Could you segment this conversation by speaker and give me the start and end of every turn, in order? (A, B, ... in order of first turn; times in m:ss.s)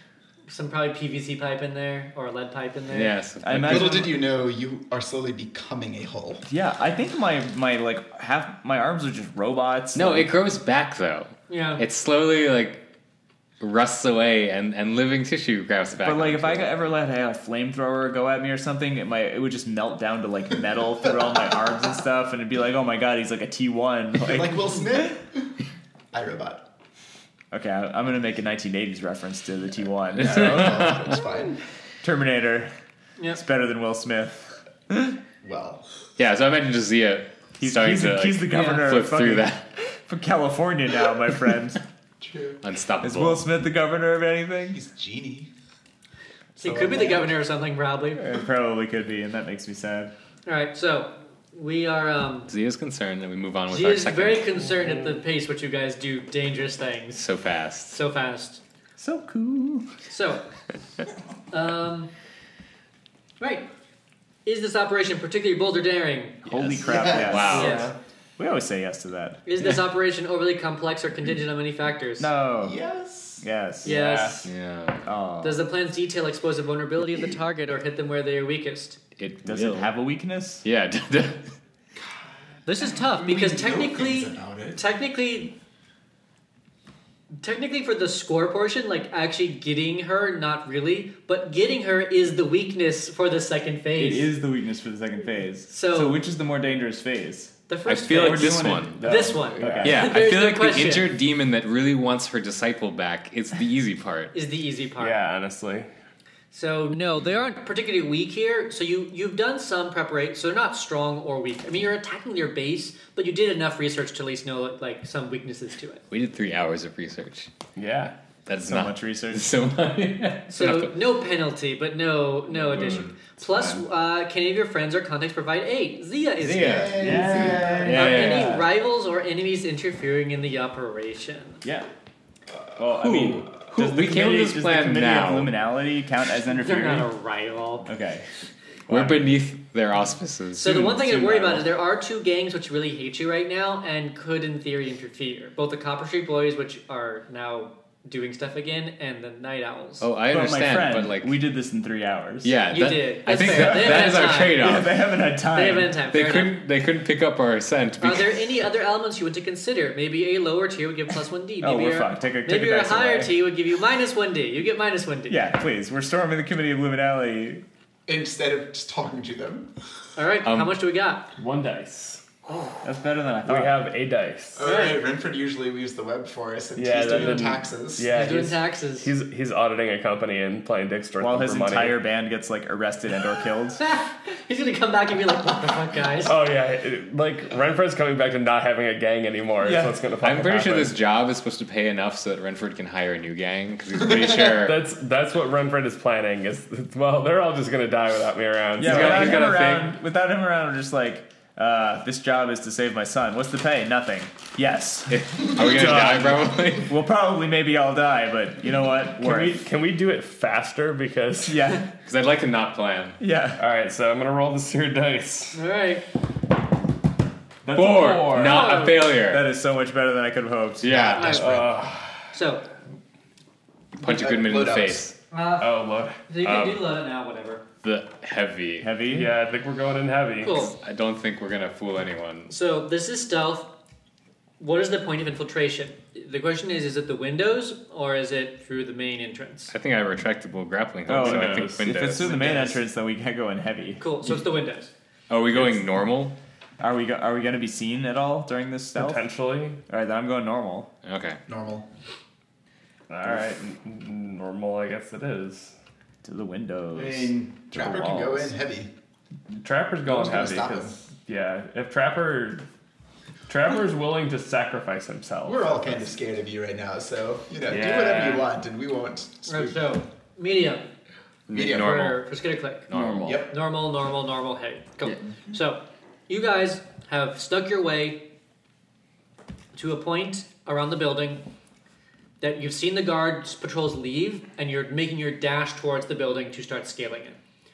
0:00.5-0:03.2 A
0:02.9-0:03.8 B
0:03.4-0:04.1 C
0:03.6-0:06.5 D
0:06.5-0:10.3 C
0:10.0-0:12.8 B
0:11.5-0:11.8 A
0:13.6-0:16.7 B
0:16.0-0:25.1 C
0:24.2-0:25.6 D
0:26.1-0:26.7 D
0:27.5-0:30.9 C
0:30.2-0:31.6 D
0:32.0-0:32.7 C
0:33.3-0:35.2 C
0:35.4-0:35.9 D
0:36.2-0:39.6 B
0:37.6-0:41.8 C
0:38.5-0:38.8 A
0:42.2-0:42.6 D
0:42.6-0:43.4 B
0:43.0-0:44.8 C
0:44.7-0:45.5 D
0:46.6-0:47.3 D
0:46.6-0:48.2 A
0:48.2-0:50.1 C
0:50.5-0:52.5 A
0:52.5-0:54.4 B
0:53.7-0:57.3 A
0:57.2-0:57.9 B
0:57.9-0:58.6 A
0:59.0-0:59.9 C
1:00.1-1:00.5 A
1:01.5-1:02.1 A
1:03.4-1:03.7 A
1:04.5-1:07.9 A
1:06.5-1:07.8 C
1:06.6-1:07.8 B
1:06.9-1:07.6 D
1:07.5-1:08.0 E
1:08.4-1:09.8 C
1:09.5-1:12.3 A
1:12.2-1:12.8 C
1:12.6-1:13.4 D
1:13.4-1:14.4 C
1:13.8-1:14.5 A
1:14.4-1:15.0 B
1:15.0-1:15.6 C
1:15.4-1:19.0 A
1:19.2-1:19.9 B
1:19.4-1:20.6 C
1:20.6-1:21.5 B
1:22.0-1:22.3 D
1:22.7-1:25.6 A
1:22.9-1:24.8 D
1:27.3-1:34.3 A
1:34.0-1:37.6 C
1:35.7-1:36.2 A
1:37.7-1:41.1 A
1:37.9-1:39.0 B
1:38.1-1:40.1 C
1:39.0-1:40.0 E
1:39.8-1:44.3 B
1:44.3-1:45.2 A
1:45.0-1:45.9 E
1:46.5-1:56.0 A
1:56.1-1:57.5 B
1:57.8-1:58.2 E
1:58.5-2:00.9 B
1:58.6-1:59.5 C
2:00.5-2:11.6 A
2:02.7-2:03.1 B
2:06.4-2:07.1 B
2:06.6-2:08.1 D
2:07.0-2:08.7 C
2:07.0-2:07.7 E
2:07.8-2:08.5 B
2:11.6-2:11.9 C
2:12.8-2:17.1 C
2:13.0-2:15.5 B
2:16.4-2:17.9 A
2:17.9-2:18.3 C
2:18.9-2:19.3 C
2:18.9-2:21.0 B
2:20.6-2:30.1 A
2:21.0-2:21.6 C
2:30.0-2:31.4 B
2:30.3-2:32.6 C
2:32.4-2:34.9 B
2:32.7-2:34.9 A
2:33.4-2:36.0 C
2:35.5-2:36.6 A
2:36.1-2:38.4 B
2:38.0-2:45.5 A
2:41.6-2:43.3 C
2:45.3-2:47.6 C
2:48.1-2:49.7 D
2:50.2-2:51.3 A
2:50.4-2:50.7 B
2:51.4-2:52.2 E
2:52.5-2:52.8 A
2:52.8-2:53.9 C
2:53.4-2:54.7 E
2:54.6-2:58.1 D
2:54.6-2:55.0 A
2:56.8-3:02.0 E
2:58.1-2:59.1 A
3:01.2-3:03.8 C
3:03.8-3:06.3 A
3:06.2-3:11.0 E
3:09.6-3:10.0 C
3:10.2-3:14.8 B
3:14.6-3:19.5 E
3:18.8-3:25.2 C
3:18.8-3:19.9 B
3:25.1-3:26.9 B
3:25.6-3:26.6 E
3:26.7-3:29.6 C
3:29.2-3:31.7 E
3:31.5-3:31.9 C
3:32.0-3:33.2 B
3:33.2-3:33.7 C
3:33.6-3:35.6 E
3:35.5-3:36.1 A
3:37.6-3:41.0 C
3:37.7-3:39.4 B
3:37.9-3:38.6 E
3:38.4-3:39.1 A
3:40.8-3:41.4 B
3:40.8-3:41.8 D
3:41.2-3:41.5 A
3:41.4-3:42.4 E
3:42.3-3:42.7 A
3:44.0-3:45.1 B
3:44.0-3:45.1 D
3:45.3-3:45.7 A
3:45.6-3:46.2 E
3:46.3-3:47.7 A
3:46.4-3:46.8 B
3:47.8-3:48.9 B
3:48.8-3:49.4 C
3:49.1-3:50.7 E
3:50.4-3:50.8 A
3:50.6-3:52.5 B
3:52.5-3:53.7 A
3:54.6-3:59.7 A
3:59.7-4:02.6 B
4:01.1-4:04.4 C
4:01.1-4:02.8 E
4:04.0-4:04.9 A
4:05.3-4:06.4 B
4:06.8-4:09.3 C
4:09.0-4:09.8 E
4:09.9-4:10.9 C
4:11.0-4:11.4 B
4:11.5-4:11.9 D
4:13.1-4:15.7 E
4:16.2-4:18.5 C
4:16.9-4:18.9 D
4:19.6-4:22.6 E
4:20.0-4:21.0 D
4:23.5-4:25.7 E
4:25.4-4:30.0 D
4:27.7-4:28.5 E
4:29.5-4:30.9 A
4:31.5-4:32.2 B
4:31.5-4:32.0 D
4:31.6-4:32.9 A
4:32.9-4:33.5 B
4:33.2-4:33.6 D
4:33.4-4:38.3 A
4:39.7-4:41.4 A
4:42.4-4:47.4 A